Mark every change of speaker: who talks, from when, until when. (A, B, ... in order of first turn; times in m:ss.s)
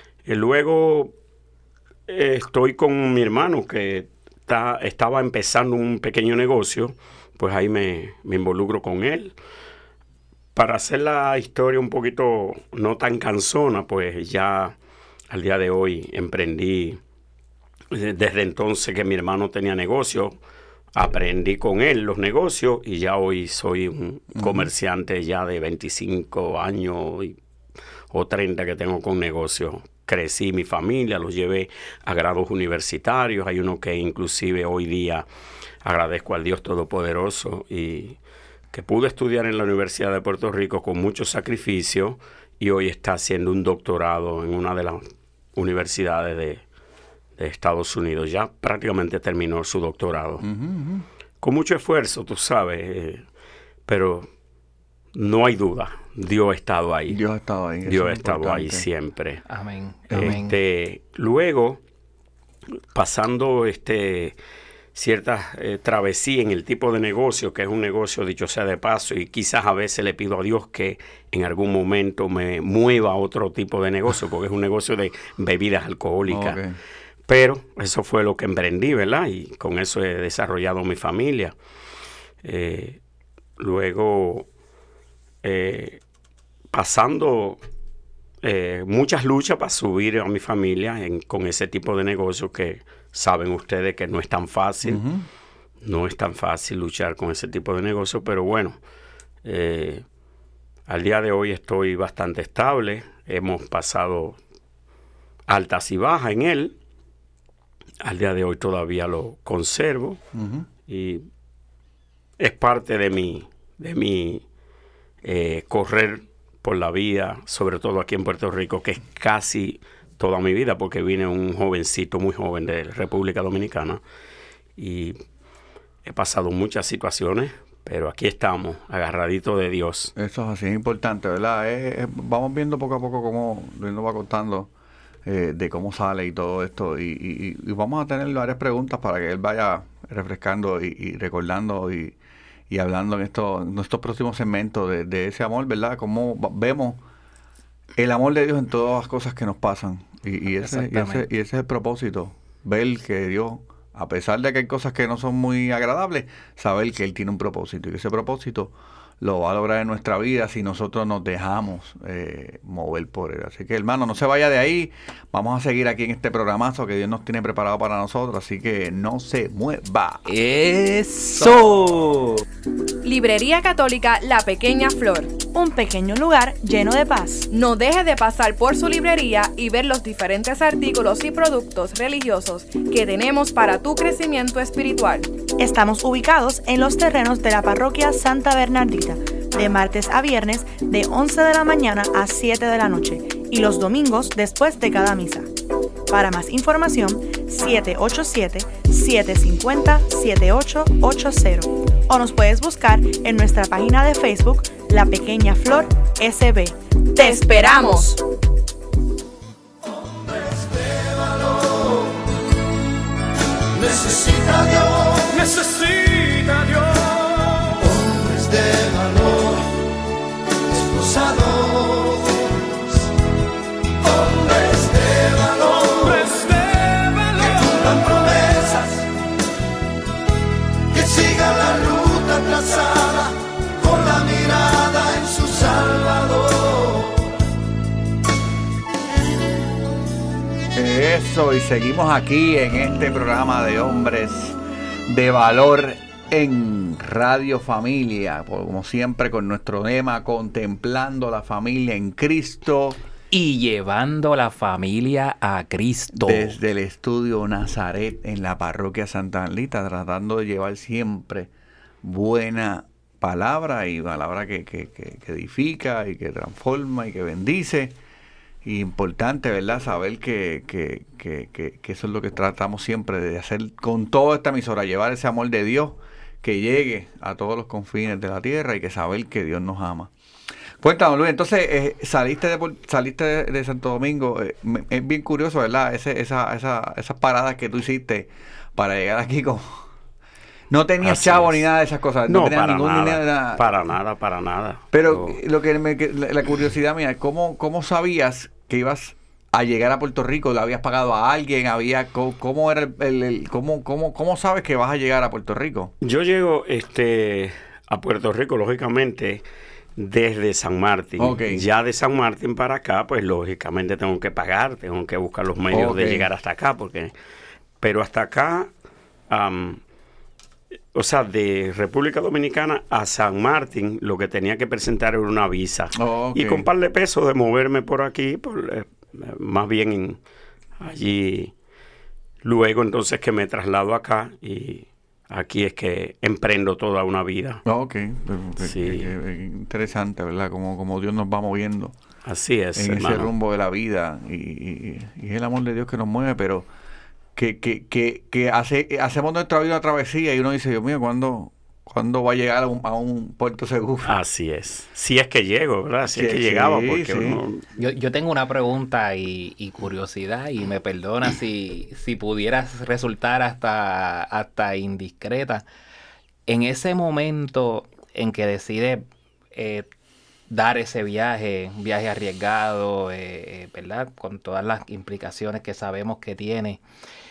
0:00.3-0:01.1 A
0:02.1-0:09.3 A
0:10.6-0:14.8 A
0:15.3-0:17.0 A
0:17.9-0:20.4 A
0:21.0-0:27.4 A
0:24.4-0:24.7 B
0:28.1-0:35.2 A
0:35.8-0:38.2 A
0:38.7-0:45.0 A
0:45.6-0:46.6 A
0:47.4-0:50.5 A
0:50.4-0:51.1 B
0:51.4-0:53.2 A
0:53.9-0:54.3 A
0:55.2-0:57.2 A
0:57.1-0:58.9 B
0:57.9-0:59.4 A
0:59.5-1:00.5 C
1:00.1-1:00.4 B
1:00.1-1:01.8 A
1:02.9-1:04.4 A
1:04.9-1:16.6 A
1:16.3-1:16.8 B
1:17.3-1:21.6 A
1:22.4-1:23.0 A
1:23.6-1:24.5 A
1:25.4-1:26.0 A
1:26.7-1:27.6 A
1:28.4-1:35.0 A
1:34.8-1:35.3 B
1:35.8-1:38.8 A
1:39.4-1:40.0 A
1:40.9-1:44.4 A
1:45.5-1:46.8 A
1:48.0-1:50.2 A
1:50.4-1:50.7 B
1:50.9-1:51.2 A
1:52.4-1:54.4 A
1:55.2-2:04.0 A
2:04.8-2:05.2 A
2:06.0-2:10.1 A
2:10.2-2:14.7 B
2:15.2-2:22.2 B
2:22.7-2:27.0 B
2:28.0-2:50.3 B
2:30.6-2:31.3 C
2:50.3-2:52.4 C
2:53.0-2:55.4 D
2:55.5-2:57.5 E
2:57.5-3:05.3 D
3:05.6-3:15.5 E
3:16.1-3:27.9 E
3:27.2-3:28.2 D
3:33.8-3:39.6 D
3:40.7-3:42.2 D
3:44.8-3:49.0 D
3:51.0-3:56.5 D
4:00.7-4:13.0 B
4:13.3-4:16.6 C
4:16.1-4:21.5 B
4:22.0-4:28.0 B
4:28.6-4:40.1 B
4:40.8-4:49.9 B
4:50.7-4:53.6 B
4:51.0-4:51.7 A
4:52.3-4:55.4 A
4:54.9-5:05.9 B
5:06.0-5:09.4 A
5:10.0-5:17.1 A
5:11.2-5:11.6 B
5:15.7-5:16.3 B
5:17.8-5:18.7 A
5:19.3-5:19.8 A
5:20.9-5:30.2 A
5:26.0-5:26.7 B
5:30.8-5:31.5 A
5:32.4-5:37.6 A
5:37.7-5:42.0 B
5:38.6-5:39.1 A
5:42.2-5:43.3 A
5:42.8-5:46.7 B
5:47.4-5:54.2 B
5:54.0-5:57.6 A
5:56.1-5:57.4 B
5:57.8-6:05.6 C
6:06.5-6:09.9 C
6:10.5-6:16.8 C